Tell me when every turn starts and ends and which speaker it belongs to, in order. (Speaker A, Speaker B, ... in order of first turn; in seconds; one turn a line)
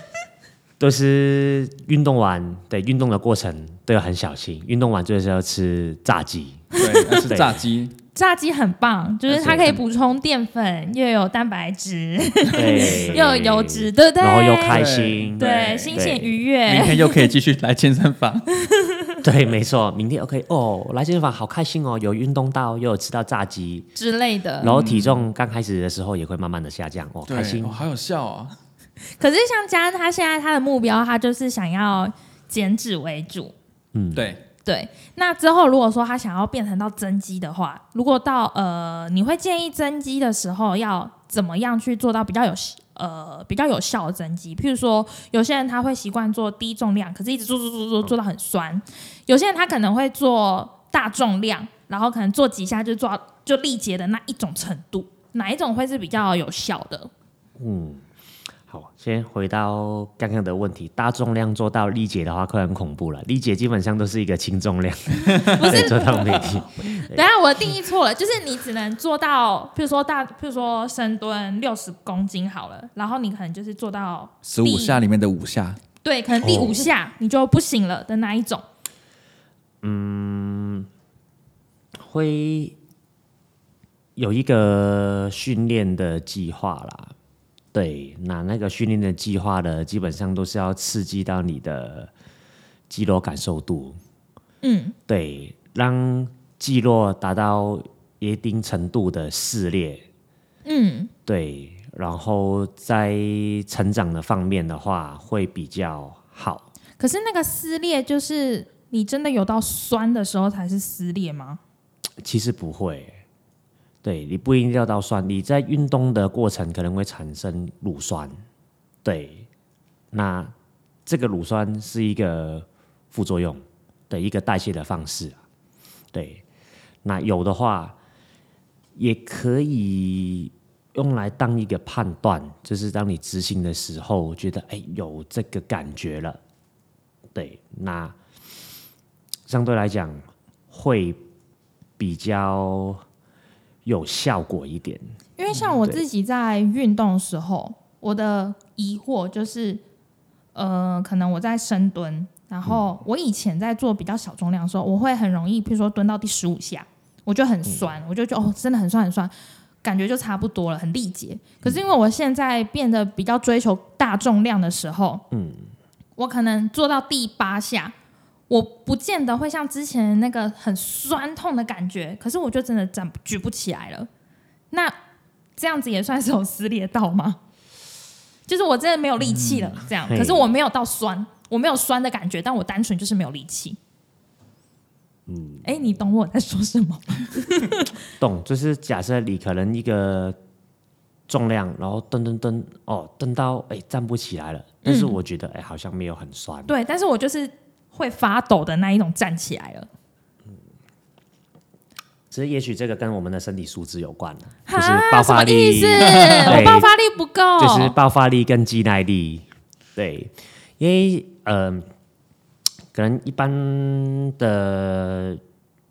Speaker A: 0.8-6.7
Speaker B: 6.8-8.0
Speaker C: 6.8-7.0
Speaker A: 7.3-7.6
Speaker C: 8.1-14.8
Speaker A: 9.3-9.8
Speaker B: 9.4-9.7
Speaker A: 12.5-16.3
Speaker B: 14.7-16.0
Speaker C: 15.4-17.3
Speaker B: 16.6-18.5
Speaker C: 18.6-19.2
Speaker A: 19.2-23.9
Speaker C: 23.9-24.7
Speaker A: 24.6-27.8
Speaker B: 24.6-25.2
Speaker B: 27.3-28.6
Speaker C: 29.2-33.5
Speaker A: 33.9-34.3
Speaker B: 34.1-34.4
Speaker C: 34.6-57.1
Speaker A: 57.6-58.0
Speaker A: 58.7-67.2
Speaker B: 65.3-65.9
Speaker C: 65.4-75.0
Speaker B: 74.4-75.8
Speaker C: 76.0-78.6
Speaker A: 76.4-76.9
Speaker A: 79.8-80.9
Speaker A: 82.0-82.8
Speaker A: 84.2-87.1
Speaker A: 87.7-92.1
Speaker A: 92.9-94.0
Speaker C: 94.6-94.9
Speaker A: 95.1-100.0
Speaker C: 100.6-101.1
Speaker A: 101.2-106.7
Speaker C: 107.0-111.6
Speaker A: 112.2-113.2
Speaker A: 114.0-118.4
Speaker A: 119.0-119.5
Speaker A: 120.1-120.5
Speaker A: 121.0-125.4
Speaker A: 126.1-126.4
Speaker A: 127.0-128.0
Speaker A: 128.9-136.4
Speaker A: 137.3-138.1
Speaker A: 139.5-141.2
Speaker A: 142.0-143.0
Speaker A: 143.8-145.0
Speaker C: 145.4-149.8
Speaker C: 150.5-159.3
Speaker A: 157.7-157.9
Speaker C: 159.8-165.2
Speaker A: 165.3-165.7
Speaker C: 166.2-167.9
Speaker C: 168.5-174.1
Speaker C: 175.6-177.4
Speaker C: 178.5-183.8
Speaker B: 179.2-179.8
Speaker A: 180.1-180.5
Speaker A: 185.3-185.7
Speaker C: 185.6-187.9
Speaker A: 188.2-190.4
Speaker A: 191.3-196.7
Speaker C: 194.8-195.2
Speaker C: 196.7-199.9
Speaker A: 202.3-206.9
Speaker C: 204.7-207.9
Speaker A: 207.6-211.8
Speaker A: 212.9-215.4